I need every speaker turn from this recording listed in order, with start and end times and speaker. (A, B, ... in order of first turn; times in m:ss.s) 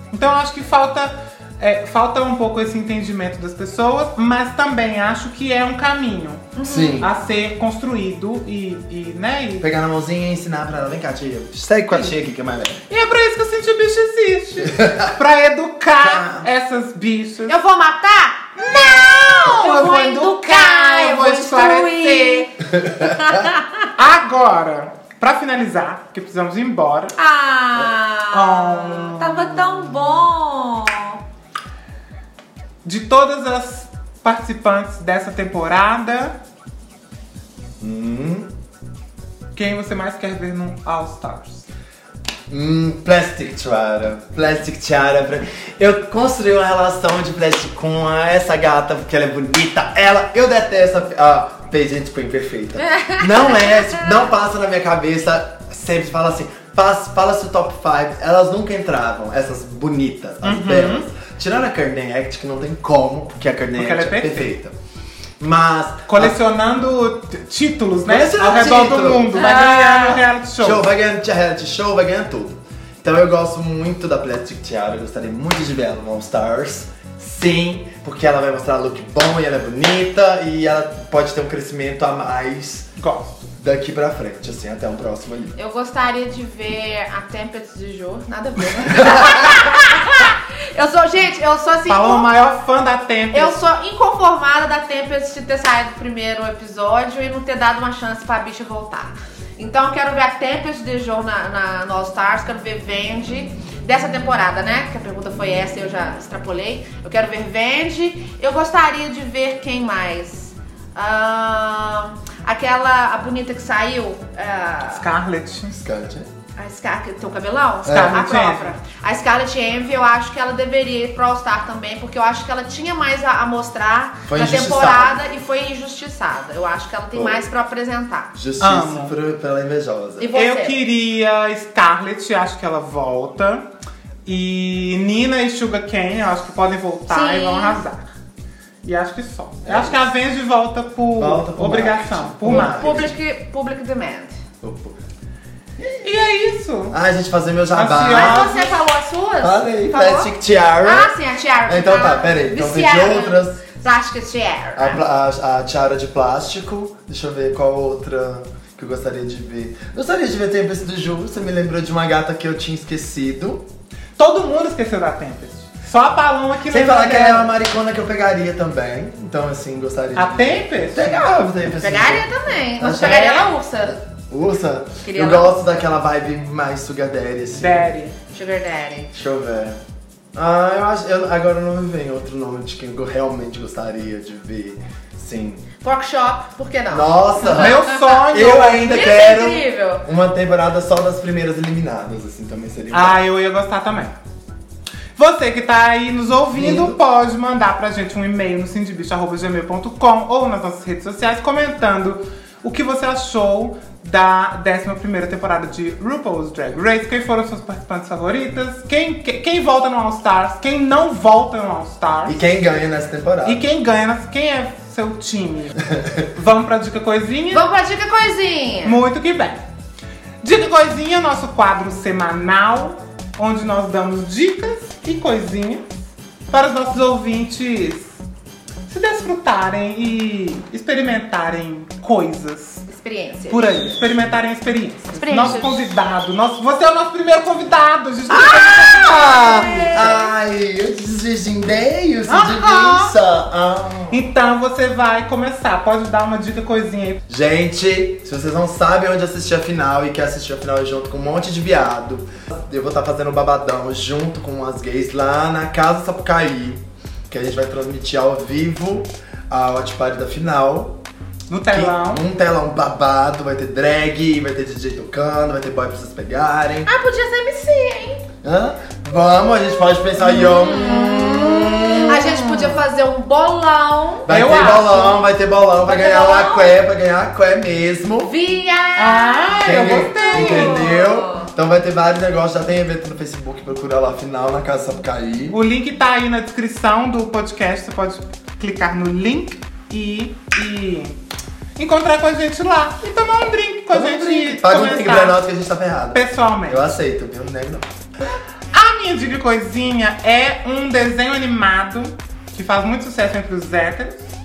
0:00.1-0:09.7 A
0:06.6-0:07.0 B
0:06.6-0:07.1 C
0:09.6-0:12.8 C
0:12.9-0:17.6 A
0:14.6-0:15.1 C
0:16.0-0:16.5 C
0:17.5-0:23.9 B
0:18.7-0:22.6 A
0:22.8-0:23.1 C
0:24.0-0:27.1 A
0:27.2-0:31.2 B
0:28.3-0:29.6 A
0:32.8-0:36.4 A
0:37.8-0:38.5 C
0:39.5-0:41.7 A
0:42.5-1:04.7 C
0:52.8-0:54.1 B
1:00.4-1:01.1 A
1:03.8-1:04.5 A
1:05.4-1:06.4 C
1:06.1-1:10.8 A
1:08.1-1:09.4 C
1:09.3-1:10.2 B
1:10.6-1:22.9 C
1:23.0-1:23.5 A
1:23.6-1:25.6 C
1:25.6-1:32.3 B
1:28.9-1:29.3 C
1:31.9-1:33.6 A
1:33.3-1:55.1 B
1:54.9-1:55.8 A
1:55.8-1:56.3 C
1:56.6-2:08.4 B
1:57.8-1:58.2 C
1:57.9-1:58.7 A
2:04.3-2:05.2 C
2:07.1-2:07.4 C
2:08.4-2:10.3 C
2:08.6-2:09.1 A
2:10.2-2:10.8 B
2:10.3-2:13.6 A
2:14.3-2:18.1 A
2:17.1-2:17.8 B
2:18.8-2:22.9 A
2:19.6-2:20.0 C
2:21.2-2:23.2 C
2:22.5-2:24.4 B
2:24.6-2:25.0 C
2:25.8-2:26.1 C
2:26.0-2:27.0 A
2:26.9-2:28.4 C
2:27.7-2:28.8 A
2:28.1-2:35.0 B
2:29.4-2:31.1 C
2:31.7-2:33.6 C
2:34.8-2:43.7 C
2:44.2-2:47.5 A
2:46.7-2:53.3 C
2:50.1-2:51.3 A
2:51.8-2:54.0 B
2:53.0-2:53.5 A
2:53.8-2:57.9 C
2:55.0-2:55.8 B
2:57.5-2:58.2 A
2:58.3-2:59.1 B
2:59.1-2:59.8 C
3:00.4-3:05.6 C
3:05.8-3:10.1 B
3:06.9-3:13.2 C
3:07.4-3:08.9 A
3:12.9-3:14.1 A
3:15.2-3:32.4 A
3:16.5-3:17.0 C
3:32.3-3:33.6 C
3:33.4-3:37.7 A
3:35.8-3:36.3 C
3:37.5-3:39.0 B
3:38.8-3:39.6 A
3:40.4-3:46.0 A
3:46.5-3:48.2 A
3:48.9-3:52.8 A
3:52.9-3:53.8 B
3:53.5-4:00.2 A
3:55.2-3:55.8 B
3:58.4-4:04.2 C
3:58.4-4:00.3 B
4:02.3-4:03.1 A
4:04.1-4:07.2 A
4:07.3-4:21.0 C
4:21.5-4:22.2 A
4:21.7-4:26.9 C
4:26.9-4:28.2 B
4:28.4-4:32.6 C
4:30.3-4:34.3 B
4:34.3-4:38.3 C
4:34.3-4:35.2 A
4:35.8-4:36.8 B
4:38.2-4:41.5 B
4:39.0-4:40.9 A
4:39.6-4:45.6 C
4:45.5-4:51.2 A
4:51.8-4:55.4 A
4:53.9-4:57.9 C
4:56.1-4:56.9 A
4:58.7-5:04.3 A